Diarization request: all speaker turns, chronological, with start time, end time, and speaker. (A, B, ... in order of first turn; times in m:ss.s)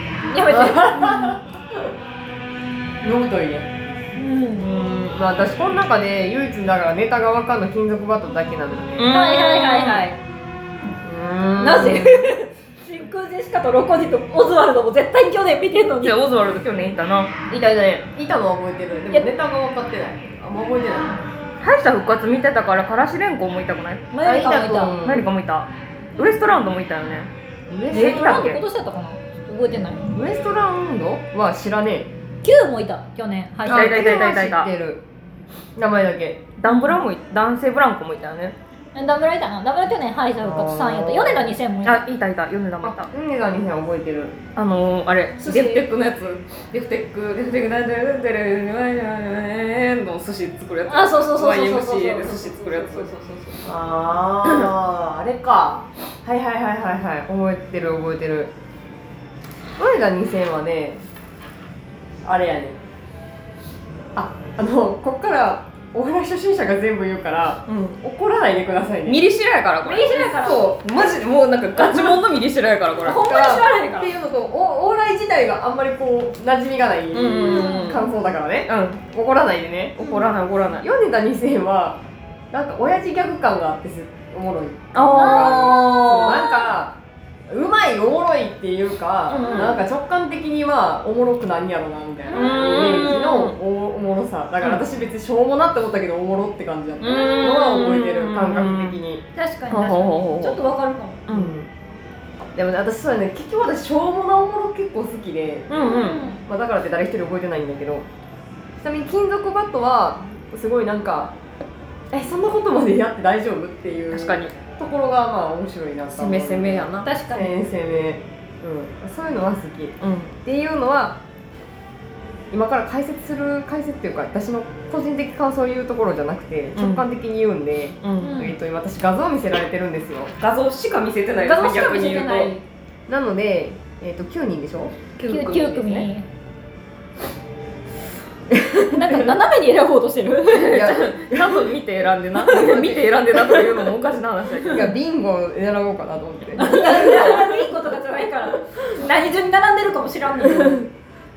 0:00.3-0:01.4 A
0:00.4-0:01.9 B
0:03.0-0:03.7 B
0:04.2-0:04.7 A
0:04.6-0:09.1 B
0:09.0-0:10.1 C
0:09.1-0:10.2 A
0:11.0-0:12.3 B
0:11.6-0:16.2 A
0:16.0-0:17.3 C
0:17.5-0:21.2 B
0:21.6-0:24.1 C
0:24.1-0:25.0 A
0:24.2-0:25.3 B
0:25.0-0:27.3 C
0:27.7-0:28.3 B
0:27.9-0:30.1 A
0:27.9-0:28.6 C
0:30.1-0:32.1 B
0:32.4-0:34.4 A
0:33.6-0:35.0 B
0:33.7-0:34.7 C
0:35.8-0:36.6 B
0:36.6-0:38.6 C
0:36.7-0:37.0 A
0:39.0-0:42.0 A
0:40.4-0:41.6 B
0:41.8-0:43.1 C
0:42.8-0:44.4 B
0:44.6-0:53.1 C
0:45.4-0:45.8 A
0:50.9-0:53.6 A
0:53.6-0:58.5 B
0:59.8-1:01.0 B
1:02.2-1:02.8 B
1:04.2-1:09.2 B
1:07.7-1:08.0 C
1:09.1-1:10.2 C
1:09.8-1:10.8 A
1:10.2-1:10.8 B
1:10.8-1:13.2 C
1:13.0-1:14.1 A
1:13.1-1:20.0 B
1:17.1-1:18.0 C
1:17.4-1:18.0 A
1:18.7-1:19.1 C
1:20.0-1:20.9 C
1:20.0-1:20.3 A
1:20.8-1:27.0 B
1:24.9-1:26.7 C
1:25.1-1:25.8 A
1:27.5-1:39.2 B
1:29.3-1:29.8 A
1:29.3-1:29.8 C
1:32.3-1:33.2 A
1:32.3-1:33.6 C
1:37.0-1:39.0 C
1:39.4-1:41.2 A
1:39.7-1:40.6 C
1:41.3-1:41.6 C
1:41.3-1:41.7 B
1:42.6-1:48.1 B
1:45.7-1:46.2 C
1:45.8-1:46.4 A
1:48.8-1:51.3 B
1:52.1-2:01.2 B
1:54.1-1:54.6 C
1:56.1-1:57.1 C
1:57.0-1:57.5 A
2:00.0-2:00.3 C
2:02.5-2:10.3 B
2:06.8-2:07.0 C
2:08.0-2:08.4 C
2:08.2-2:08.6 A
2:10.4-2:12.5 C
2:11.4-2:12.6 A
2:13.1-2:15.0 B
2:15.2-2:16.1 C
2:15.2-2:16.3 A
2:18.5-2:19.3 B
2:18.9-2:20.8 A
2:20.5-2:24.9 C
2:20.6-2:21.8 B
2:22.4-2:23.9 B
2:24.7-2:27.7 B
2:26.6-2:30.8 A
2:30.4-2:30.9 B